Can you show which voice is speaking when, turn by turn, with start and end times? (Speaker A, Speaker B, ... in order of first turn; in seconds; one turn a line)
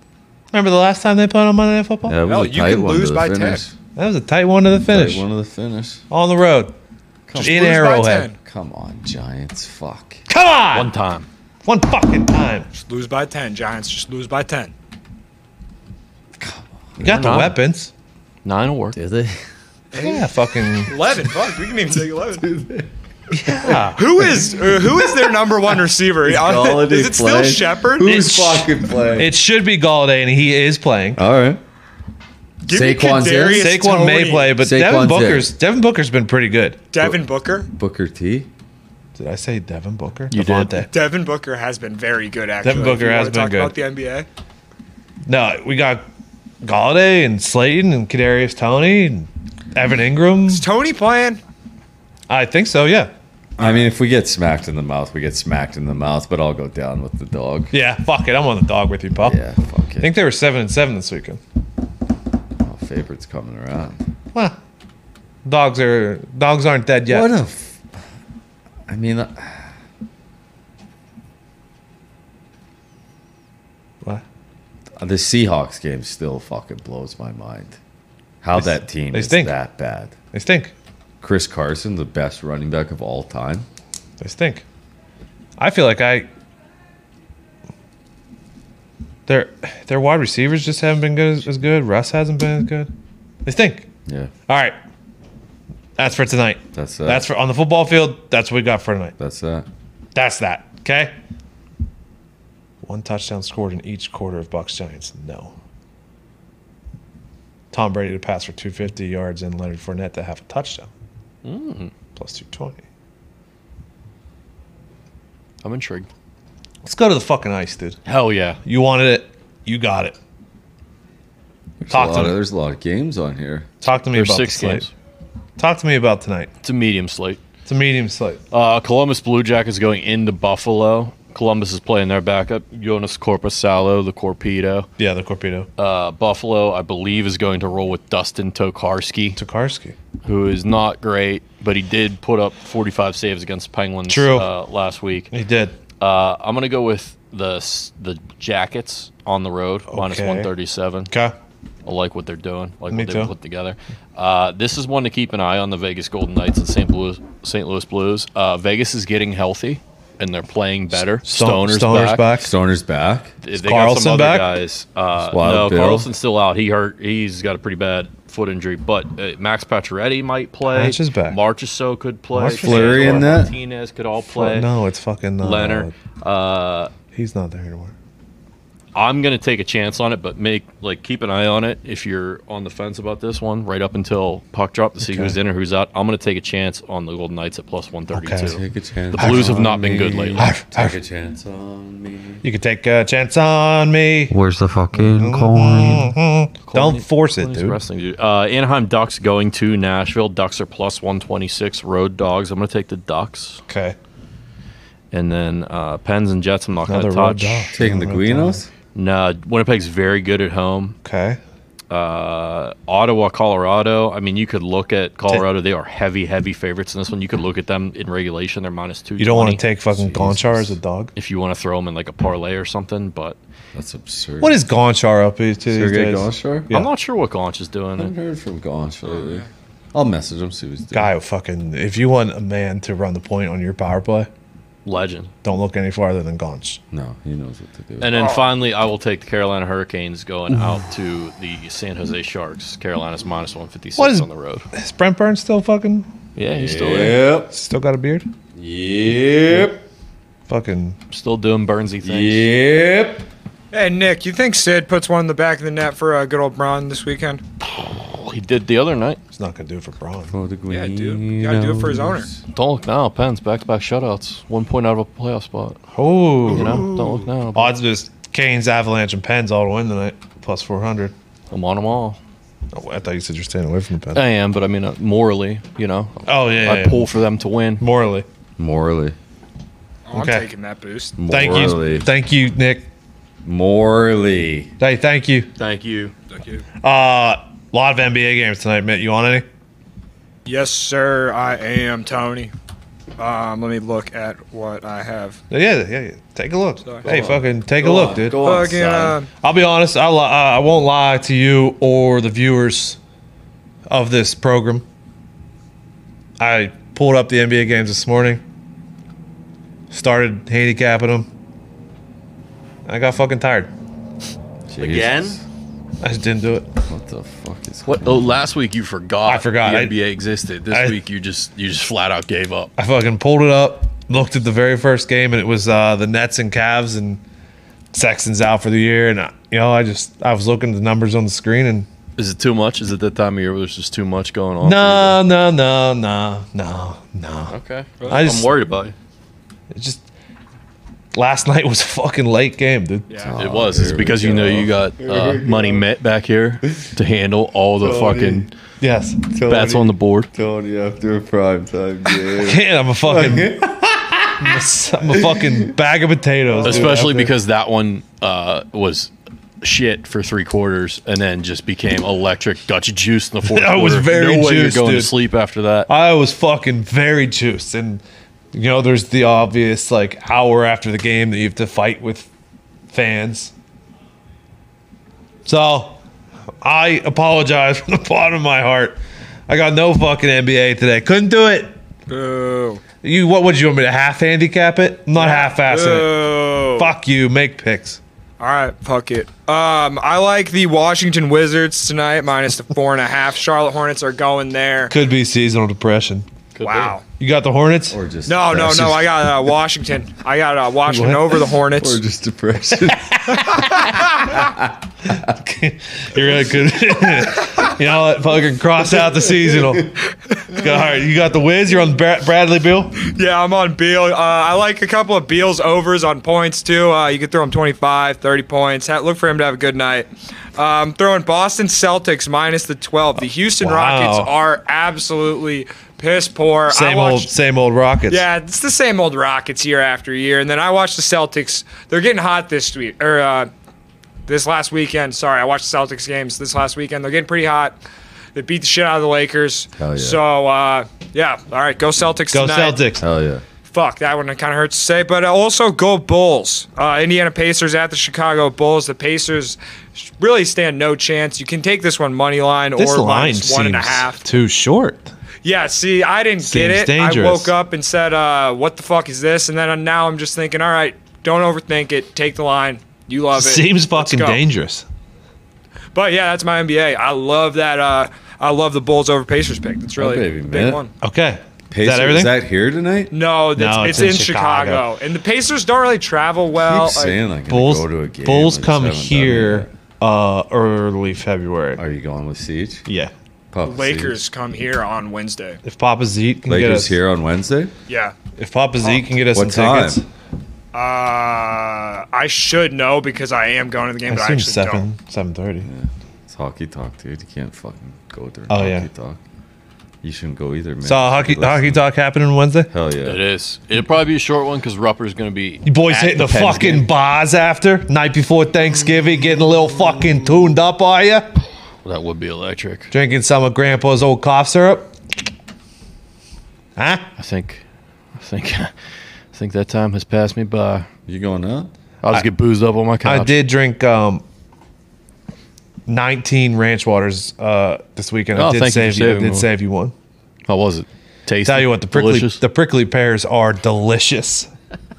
Speaker A: 0.5-2.2
Speaker B: 2.1-3.7
Speaker C: 2.2-3.6
Speaker A: 4.0-5.2
Speaker B: 4.9-6.0
Speaker A: 6.1-6.7
Speaker B: 7.3-7.8
Speaker C: 7.3-8.3
Speaker A: 7.4-8.3
Speaker B: 8.4-10.2
Speaker A: 10.3-10.9
Speaker D: 10.7-11.3
Speaker A: 11.6-12.7
Speaker C: 12.7-14.7
Speaker B: 16.4-17.3
Speaker A: 17.0-17.9
Speaker D: 17.0-17.6
Speaker D: 18.4-19.0
Speaker B: 18.9-19.4
Speaker C: 19.9-20.2
Speaker A: 20.0-20.9
Speaker C: 20.8-22.5
Speaker B: 22.4-22.9
Speaker A: 23.3-24.1
Speaker C: 23.9-28.2
Speaker B: 26.2-29.3
Speaker A: 28.0-31.2
Speaker B: 31.1-31.6
Speaker C: 32.6-34.5
Speaker B: 32.7-33.7
Speaker A: 33.5-36.8
Speaker B: 34.6-35.5
Speaker C: 36.9-37.7
Speaker B: 37.7-38.5
Speaker A: 39.1-40.9
Speaker D: 40.3-40.9
Speaker C: 40.9-44.3
Speaker A: 42.6-43.7
Speaker A: 45.2-46.0
Speaker A: 46.6-50.6
Speaker C: 50.5-51.4
Speaker A: 52.3-53.1
Speaker C: 53.6-53.8
Speaker B: 53.6-57.7
Speaker A: 57.7-59.4
Speaker B: 59.1-60.1
Speaker A: 60.0-61.4
Speaker B: 62.6-64.0
Speaker A: 65.4-67.3
Speaker B: 67.1-68.0
Speaker B: 68.9-69.7
Speaker B: 75.0-77.8
Speaker B: 78.4-80.1
Speaker A: 79.1-79.5
Speaker A: 80.3-80.7
Speaker B: 81.2-83.7
Speaker A: 84.2-84.6
Speaker A: 85.6-86.3
Speaker A: 89.3-92.9
Speaker A: 93.4-93.9
Speaker B: 94.0-94.3
Speaker A: 94.5-94.8
Speaker A: 96.0-99.1
Speaker B: 96.7-97.2
Speaker B: 99.2-99.7
Speaker A: 100.1-101.1
Speaker A: 102.8-105.5
Speaker A: 107.7-110.9
Speaker D: 111.4-111.9
Speaker A: 112.2-112.8
Speaker D: 115.6-116.1
Speaker A: 116.8-118.0
Speaker D: 118.0-118.6
Speaker A: 118.6-120.2
Speaker B: 121.8-123.7
Speaker A: 121.9-122.4
Speaker A: 123.8-124.9
Speaker D: 124.1-124.9
Speaker A: 125.6-126.5
Speaker D: 126.6-127.4
Speaker A: 127.7-128.4
Speaker D: 128.5-134.9
Speaker A: 135.0-135.7
Speaker D: 135.8-139.4
Speaker A: 139.3-139.9
Speaker D: 140.2-145.3
Speaker A: 144.1-144.5
Speaker A: 145.3-145.8
Speaker D: 146.0-151.1
Speaker A: 149.9-150.5
Speaker D: 151.8-162.2
Speaker A: 152.9-153.3
Speaker A: 161.2-162.5
Speaker B: 162.4-163.3
Speaker D: 163.4-174.7
Speaker A: 163.5-164.5
Speaker B: 165.2-166.1
Speaker A: 170.7-171.4
Speaker A: 172.3-173.3
Speaker B: 172.6-173.5
Speaker A: 174.2-175.9
Speaker D: 175.4-176.9
Speaker A: 177.1-177.9
Speaker D: 178.9-188.6
Speaker A: 185.0-185.4
Speaker A: 188.1-188.6
Speaker B: 188.5-192.4
Speaker D: 189.1-190.5
Speaker A: 189.2-189.6
Speaker A: 190.4-191.0
Speaker A: 192.4-194.3
Speaker B: 194.3-196.1
Speaker A: 194.9-197.8
Speaker D: 196.7-203.6
Speaker A: 203.7-203.9
Speaker D: 205.1-207.7
Speaker A: 206.9-208.6
Speaker B: 207.7-208.7
Speaker D: 208.9-211.0
Speaker A: 211.0-211.4
Speaker D: 211.9-219.6
Speaker A: 219.2-221.1
Speaker B: 219.9-220.8
Speaker D: 221.2-223.4
Speaker B: 223.7-224.6
Speaker A: 224.4-226.9
Speaker B: 225.7-226.7
Speaker D: 226.7-228.1
Speaker B: 228.0-231.1
Speaker C: 229.1-229.4
Speaker A: 230.9-234.3
Speaker D: 234.8-235.3
Speaker A: 235.4-236.8
Speaker B: 236.9-238.3
Speaker D: 238.0-244.7
Speaker C: 238.1-238.5
Speaker A: 244.0-246.1
Speaker D: 246.3-247.2
Speaker B: 246.5-247.5
Speaker A: 247.5-248.3
Speaker B: 248.5-249.8
Speaker A: 250.5-251.0
Speaker D: 251.1-252.5
Speaker B: 252.0-253.2
Speaker C: 253.7-257.4
Speaker D: 257.8-259.2
Speaker A: 259.3-260.3
Speaker B: 260.3-262.4
Speaker C: 260.7-262.3
Speaker D: 262.5-265.8
Speaker A: 265.9-266.9
Speaker D: 266.5-267.7
Speaker C: 266.6-267.3
Speaker A: 267.5-271.1
Speaker D: 271.5-272.2
Speaker A: 272.7-274.2
Speaker D: 274.1-277.8
Speaker A: 276.2-277.1
Speaker A: 277.8-278.2
Speaker B: 278.6-279.1
Speaker C: 280.1-281.1
Speaker A: 280.1-280.4
Speaker B: 281.2-282.1
Speaker A: 281.3-282.9
Speaker B: 283.4-284.7
Speaker A: 284.8-285.5
Speaker D: 285.6-286.1
Speaker C: 286.3-286.6
Speaker A: 286.8-289.4
Speaker C: 290.4-292.5
Speaker C: 293.2-295.4
Speaker A: 295.5-298.4
Speaker B: 297.0-299.2
Speaker C: 298.4-299.3
Speaker A: 299.4-303.0
Speaker A: 303.9-304.8
Speaker A: 306.4-308.4
Speaker A: 309.9-311.3
Speaker A: 312.9-313.7
Speaker B: 314.7-315.4
Speaker D: 314.8-315.4
Speaker A: 316.0-316.7
Speaker B: 316.9-318.4
Speaker D: 317.8-322.7
Speaker A: 319.2-319.9
Speaker A: 320.7-321.0
Speaker A: 322.8-327.2
Speaker A: 327.9-331.9
Speaker D: 332.2-335.2
Speaker A: 334.6-337.5
Speaker D: 337.5-338.9
Speaker A: 338.1-338.5
Speaker A: 339.7-340.0
Speaker A: 341.1-343.2
Speaker C: 343.1-343.4
Speaker B: 343.2-345.9
Speaker D: 343.4-348.5
Speaker B: 347.8-348.5
Speaker A: 348.8-349.2
Speaker B: 349.3-354.5
Speaker D: 349.4-350.3
Speaker A: 352.4-353.6
Speaker A: 354.4-357.3
Speaker B: 355.1-355.7
Speaker B: 356.5-357.1
Speaker D: 356.6-365.9
Speaker A: 363.5-365.1
Speaker A: 365.9-372.3
Speaker A: 372.9-373.5
Speaker A: 375.4-376.0
Speaker A: 376.6-379.0
Speaker A: 379.5-381.7
Speaker C: 382.1-382.8
Speaker A: 383.0-386.1
Speaker C: 385.1-386.9
Speaker A: 386.8-388.0
Speaker C: 388.4-394.9
Speaker A: 394.9-396.2
Speaker D: 396.5-396.9
Speaker C: 396.6-397.0
Speaker A: 397.2-398.0
Speaker B: 397.9-399.1
Speaker C: 398.2-402.0
Speaker A: 400.9-401.3
Speaker B: 401.7-405.3
Speaker A: 402.8-403.9
Speaker C: 403.6-404.0
Speaker A: 405.3-413.0
Speaker C: 413.0-427.3
Speaker A: 423.6-424.3
Speaker A: 426.7-428.2
Speaker C: 428.1-433.5
Speaker C: 434.3-437.8
Speaker C: 438.3-442.8
Speaker B: 439.8-440.2
Speaker A: 442.3-443.0
Speaker B: 443.0-443.4
Speaker C: 443.7-454.2
Speaker A: 452.8-455.1
Speaker C: 455.4-464.4
Speaker A: 456.4-457.5
Speaker A: 463.3-464.8
Speaker C: 465.9-470.9
Speaker B: 470.0-470.8
Speaker A: 471.0-472.3
Speaker B: 471.7-473.1
Speaker C: 473.1-477.2
Speaker A: 473.6-474.9
Speaker B: 476.6-479.7
Speaker A: 477.5-481.8
Speaker B: 481.8-482.8
Speaker A: 482.9-483.1
Speaker B: 483.5-484.2
Speaker C: 483.6-485.6
Speaker A: 485.6-487.0
Speaker B: 486.5-487.7
Speaker C: 487.9-488.1
Speaker A: 488.4-490.0
Speaker B: 489.3-490.0
Speaker C: 490.7-494.9
Speaker A: 494.1-495.7
Speaker B: 495.6-499.2
Speaker A: 498.5-498.9
Speaker B: 500.0-501.9
Speaker A: 500.8-502.7
Speaker B: 502.7-503.2
Speaker D: 503.0-506.9
Speaker A: 505.6-511.3
Speaker D: 511.8-512.9
Speaker A: 512.9-514.9
Speaker A: 516.8-517.0
Speaker D: 517.2-517.6
Speaker D: 518.1-518.7
Speaker D: 519.3-520.9
Speaker B: 521.1-521.7
Speaker D: 522.0-523.3
Speaker A: 523.0-524.2
Speaker A: 525.9-529.9
Speaker D: 528.3-529.5
Speaker D: 530.5-532.4
Speaker A: 531.5-534.5